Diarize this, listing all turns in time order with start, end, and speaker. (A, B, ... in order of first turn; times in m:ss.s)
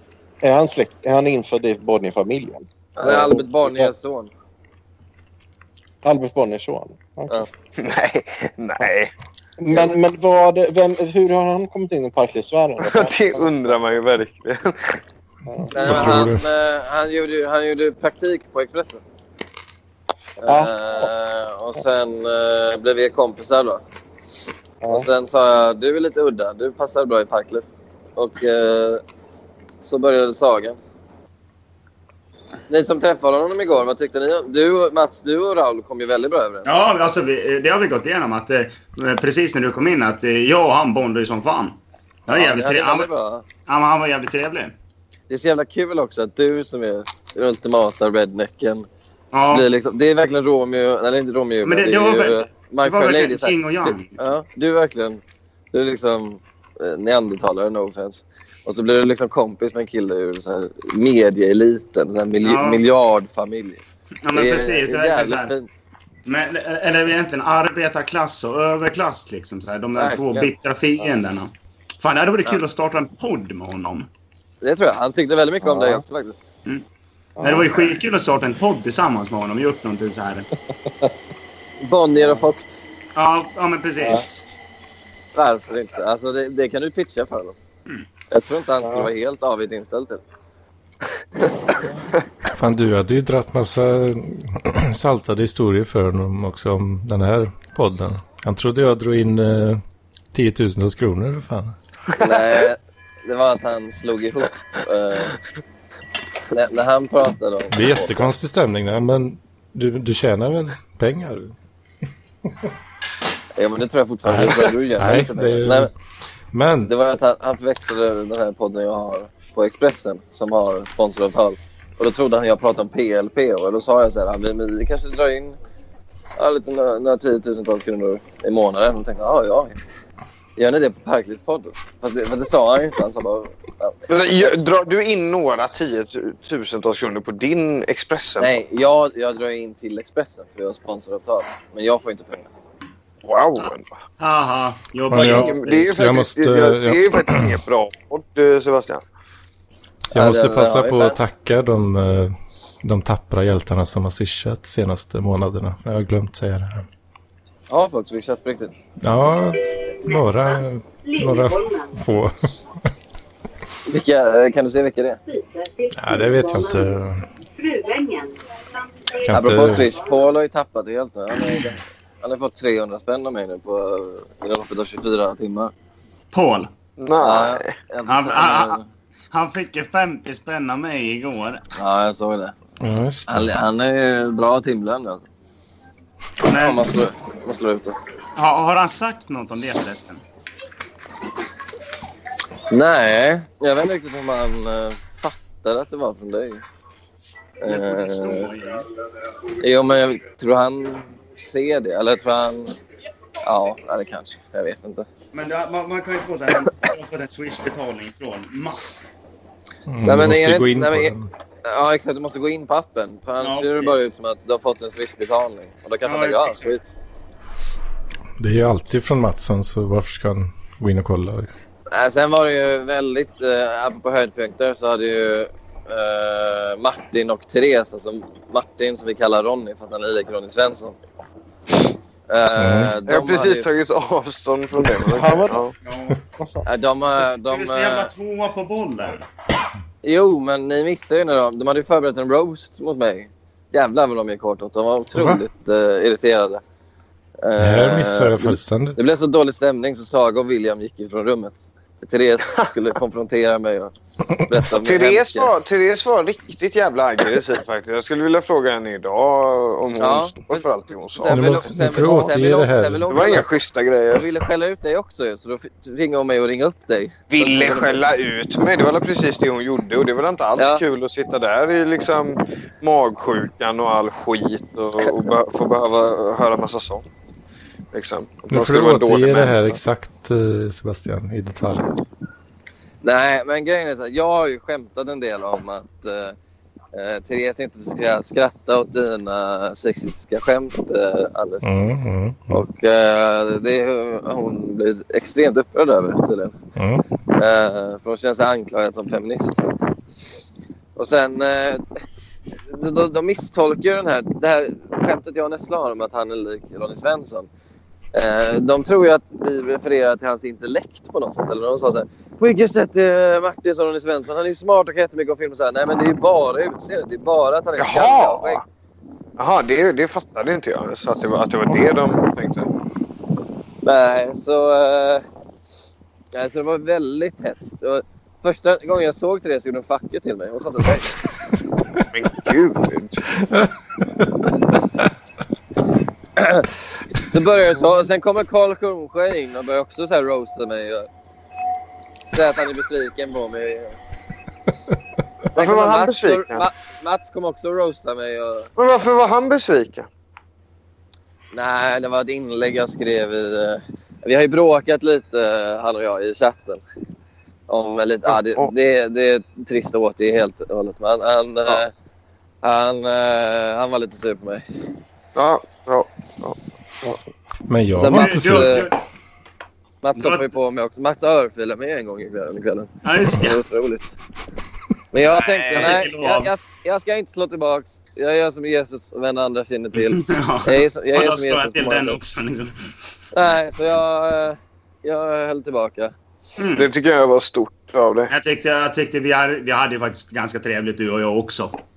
0:00.4-0:03.9 A
0:03.0-0:04.3 B
0:06.0-0:07.4 A
0:07.8-0:09.1 C
0:09.6-0:13.4 A
0:12.8-0:15.0 C
0:15.4-0:16.0 A
0:15.7-0:19.0 B
0:15.7-0:16.4 D
0:20.4-0:23.8 B
0:20.4-0:21.1 A
0:24.8-0:25.1 A
0:24.9-0:27.6 B
0:28.2-0:29.0 B
0:29.8-0:30.8 B
0:32.7-0:36.7 B
0:36.6-0:43.1 E
0:42.3-0:43.4 B
0:43.6-0:44.7 E
0:45.3-0:48.9 B
0:49.3-0:49.7 E
0:49.5-0:55.2 B
0:51.6-0:54.2 E
0:55.7-1:05.7 B
1:02.4-1:02.8 E
1:04.2-1:05.5 E
1:06.2-1:14.1 E
1:10.0-1:10.5 B
1:14.6-1:16.4 B
1:15.6-1:16.0 A
1:17.4-1:17.7 A
1:17.4-1:20.5 E
1:21.8-1:22.8 B
1:22.2-1:22.4 A
1:23.1-1:24.4 E
1:24.0-1:24.2 A
1:25.3-1:27.5 B
1:28.3-1:30.2 B
1:28.8-1:29.1 A
1:32.5-1:39.8 D
1:40.3-1:41.8 D
1:42.2-1:45.4 B
1:46.5-1:48.4 B
1:47.7-1:51.5 D
1:53.6-1:55.9 B
1:54.2-1:55.9 D
1:56.5-1:56.9 D
1:56.8-2:05.6 B
2:06.4-2:09.8 B
2:10.6-2:14.1 B
2:14.1-2:18.6 C
2:18.4-2:22.5 B
2:23.2-2:23.9 C
2:24.2-2:25.9 E
2:25.1-2:27.6 D
2:25.1-2:29.0 C
2:30.1-2:31.2 B
2:30.1-2:36.8 D
2:37.7-2:38.7 B
2:39.0-2:42.6 D
2:43.9-2:45.2 B
2:45.9-2:47.3 D
2:49.2-2:50.0 D
2:49.3-2:55.7 B
2:56.3-2:56.7 E
2:57.0-2:57.7 C
2:57.2-2:58.8 B
2:58.0-3:01.6 E
3:01.8-3:02.5 B
3:02.8-3:03.6 D
3:03.3-3:05.2 B
3:06.4-3:06.8 E
3:06.5-3:08.0 B
3:08.4-3:10.2 E
3:12.7-3:16.6 B
3:17.6-3:18.5 B
3:17.7-3:18.8 E
3:19.6-3:22.7 B
3:23.4-3:25.0 B
3:25.3-3:29.0 E
3:29.9-3:31.3 D
3:30.0-3:31.1 B
3:31.6-3:36.8 B
3:33.4-3:34.1 E
3:36.0-3:36.7 E
3:38.4-3:41.5 D
3:41.9-3:51.0 B
3:52.3-3:53.6 B
3:52.6-3:52.9 D
3:53.1-3:55.7 C
3:55.1-3:55.7 A
3:55.8-3:56.2 E
3:56.4-3:56.6 A
3:56.6-3:58.1 B
3:57.2-3:59.3 E
4:00.0-4:06.6 B
4:05.1-4:05.4 D
4:07.4-4:13.9 B
4:07.6-4:09.0 D
4:14.5-4:15.5 B
4:14.8-4:21.5 C
4:20.0-4:23.5 B
4:21.3-4:23.4 D
4:23.1-4:24.2 C
4:24.1-4:28.0 B
4:27.3-4:37.0 C
4:30.6-4:30.8 B
4:37.9-4:39.8 C
4:38.5-4:41.9 D
4:43.0-4:46.4 B
4:46.9-4:51.6 B
4:51.6-4:52.6 D
4:52.5-4:56.6 B
4:56.8-4:57.0 D
4:57.3-4:59.5 B
5:01.0-5:01.8 B
5:02.7-5:07.5 B
5:08.1-5:18.6 B
5:17.8-5:18.6 C
5:19.4-5:22.7 C
5:23.8-5:25.2 B
5:26.3-5:31.1 B
5:32.1-5:33.3 C
5:36.4-5:41.1 B
5:42.3-5:44.0 B
5:45.5-5:48.7 B
5:45.6-5:46.7 C
5:48.8-5:50.1 C
5:51.5-5:56.8 B
5:57.7-6:01.9 B
5:58.4-5:58.7 C
6:02.6-6:04.6 B
6:05.3-6:06.6 C
6:07.7-6:08.8 D
6:08.0-6:08.9 B
6:08.0-6:09.0 E
6:10.0-6:14.1 B
6:10.2-6:10.5 E
6:13.0-6:13.6 E
6:15.1-6:22.2 B
6:15.2-6:16.0 C
6:15.7-6:16.5 E
6:20.0-6:23.3 E
6:23.3-6:26.1 B
6:26.6-6:26.9 E
6:26.8-6:28.3 C
6:28.3-6:31.7 E